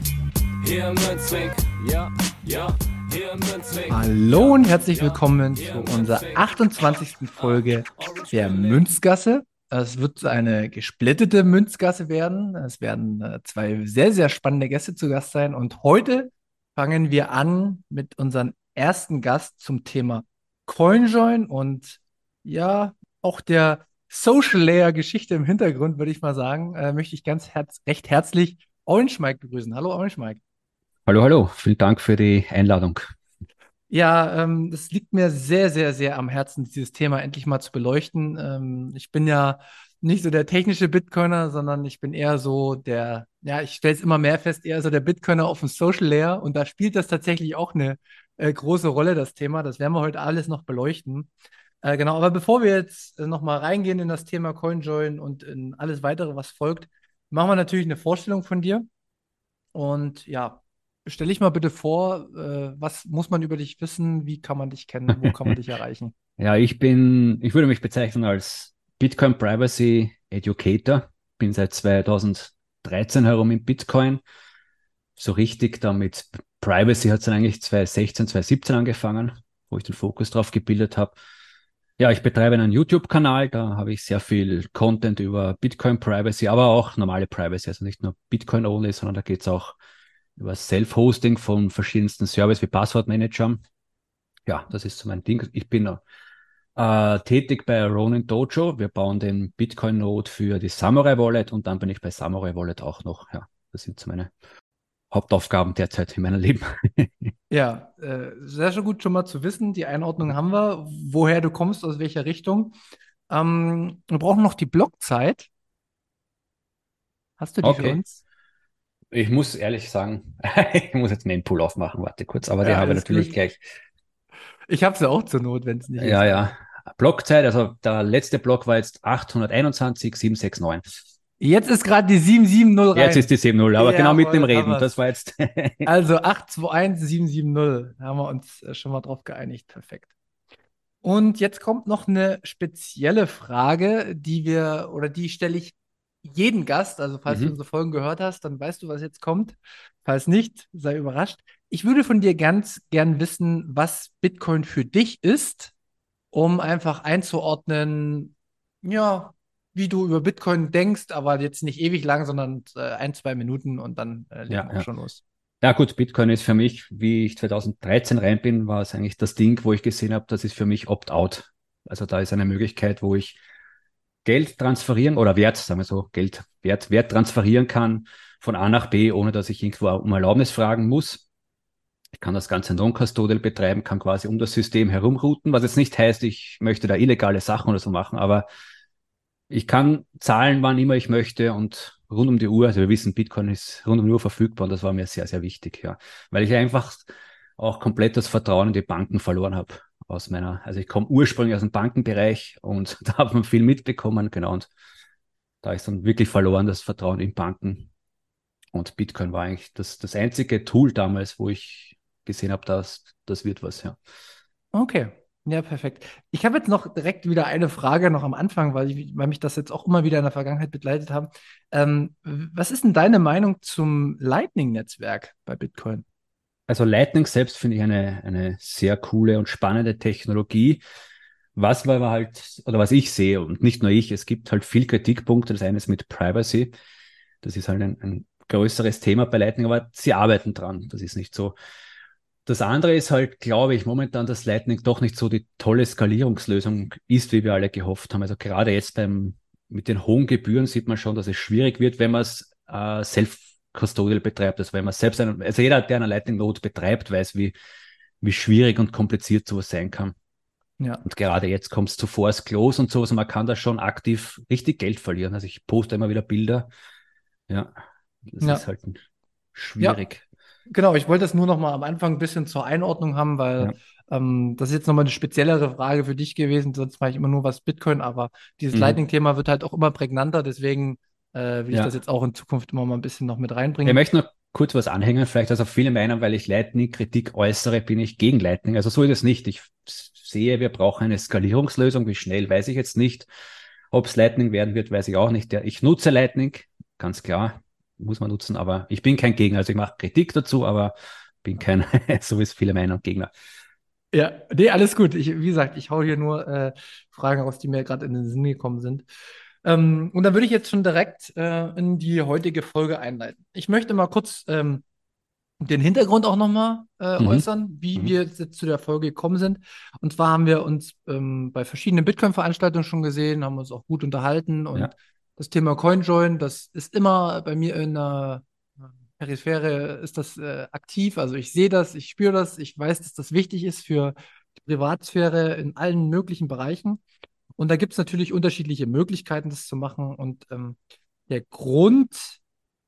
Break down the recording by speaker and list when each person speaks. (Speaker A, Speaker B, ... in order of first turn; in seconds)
Speaker A: 0.6-4.6, 5.6-6.4, 8.0-8.8
Speaker B: 3.9-30.4, 33.9-51.3, 51.8-58.9, 59.7-66.1, 107.5-112.8, 113.3-115.5, 117.4-118.2, 122.6-123.3, 124.7-126.5, 131.4-134.9, 135.8-140.1, 141.0-155.7, 156.3-165.2, 214.7-226.0, 270.7-284.0, 304.1-309.1, 309.6-314.8, 315.6-328.4, 329.2-337.0, 337.6-340.8, 341.3-342.4
Speaker C: 31.1-33.1, 66.4-74.2, 75.2-81.2, 82.0-89.8, 90.4-93.6, 94.5-96.0, 96.8-104.3, 105.1-107.3, 117.6-118.0, 119.1-123.6, 126.0-130.8, 132.9-135.9, 147.3-147.6, 164.5-164.9, 165.6-173.4, 174.2-181.2, 182.2-188.5, 189.5-204.7, 205.6-207.9, 208.7-214.0, 226.7-230.8, 231.6-236.7, 237.4-241.6, 242.5-257.6, 258.2-260.1, 261.1-266.7, 267.5-267.7, 268.3-269.0, 269.6-270.2, 278.7-279.0, 283.9-293.3, 293.9-303.3, 317.2-318.1